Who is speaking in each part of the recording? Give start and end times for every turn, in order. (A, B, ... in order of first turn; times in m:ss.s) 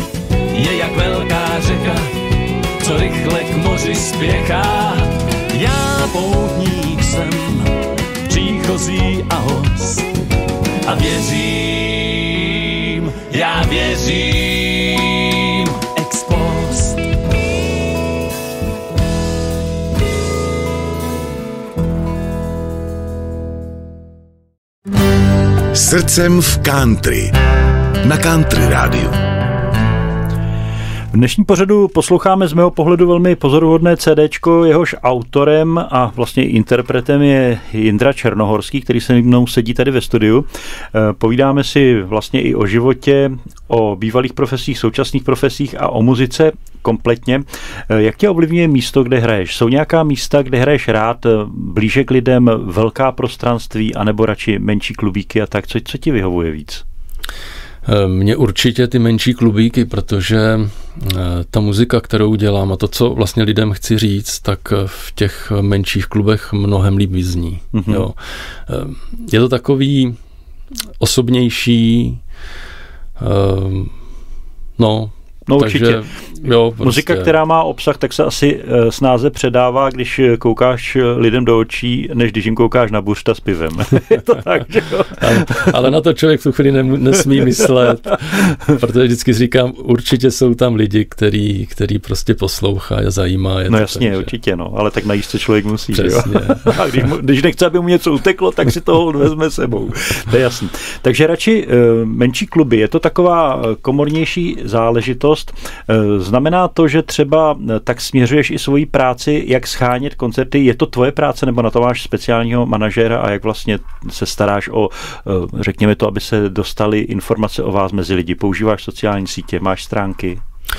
0:00.5-0:02.1 A
0:02.8-0:10.1 A
0:10.8-0:17.0 A
0:25.7-0:27.4 B
0:28.0-0:29.2 B
0:31.1-0:56.8 C
0:57.8-1:10.2 D
1:07.7-1:08.0 C
1:11.0-1:12.2 D
1:13.2-1:13.9 D
1:14.8-1:17.3 D
1:15.5-1:16.0 C
1:16.8-1:25.7 C
1:25.2-1:34.3 D
1:33.7-2:00.4 C
1:35.9-1:36.8 D